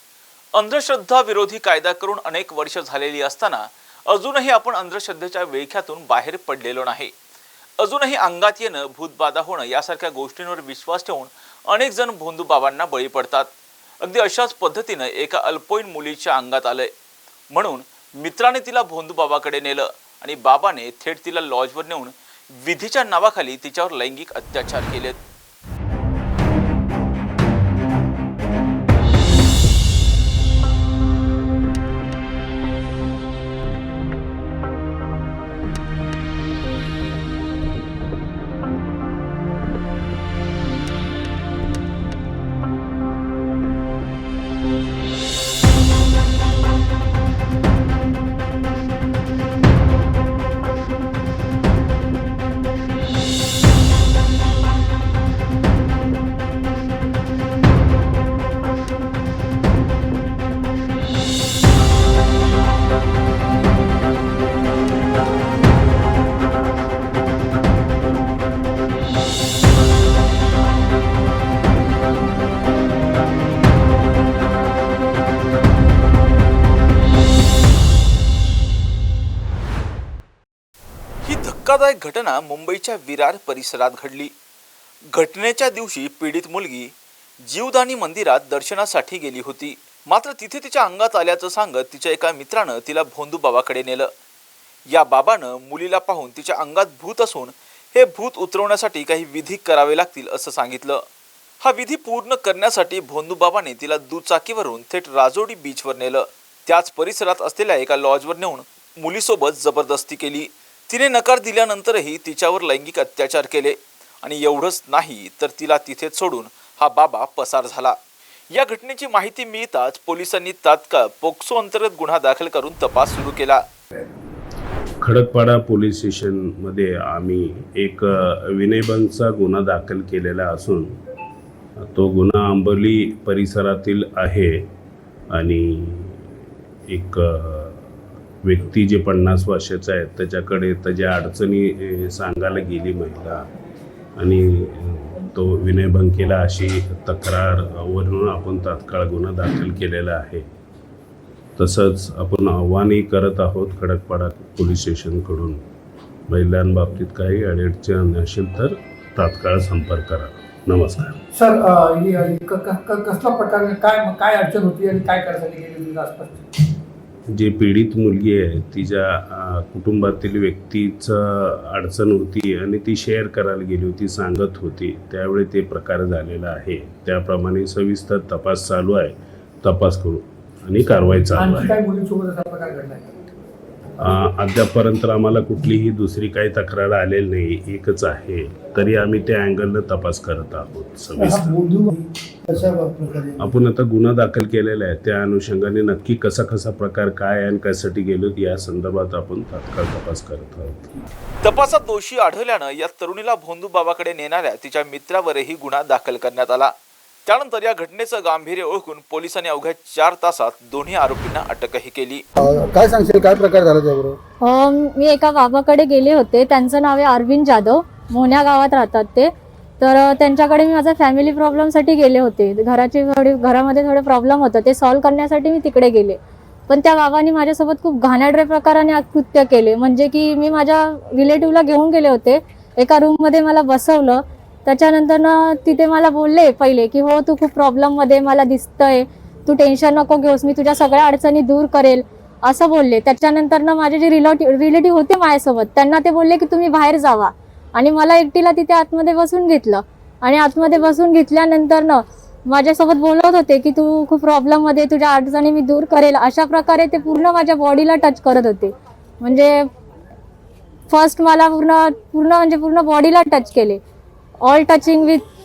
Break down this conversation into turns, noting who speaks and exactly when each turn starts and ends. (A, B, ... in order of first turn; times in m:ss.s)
0:00.5-0:07.1 A
0:07.8-0:16.9 A
0:17.5-0:25.2 A
1:21.2-1:24.3 A
1:25.1-1:26.9 A
1:27.4-1:34.1 A
1:34.9-1:41.0 A
1:41.6-1:58.0 A
1:58.5-2:03.6 A
2:05.0-2:10.9 B
2:11.9-2:14.6 B
2:15.3-2:16.3 B
2:16.9-2:17.9 B
2:18.4-2:23.4 B
2:24.2-2:30.4 B
2:31.6-2:35.6 B
2:36.3-2:41.2 B
2:41.3-2:46.4 C
2:47.3-3:01.8 B
3:01.3-3:03.1 C
3:04.0-3:11.7 B
3:11.2-3:12.1 C
3:12.5-3:13.5 D
3:13.4-3:21.0 B
3:21.4-3:26.8 A
3:27.3-3:32.2 A
3:32.5-3:34.2 D
3:34.4-4:19.7 E
4:20.9-4:23.8 E
4:24.4-4:25.2 E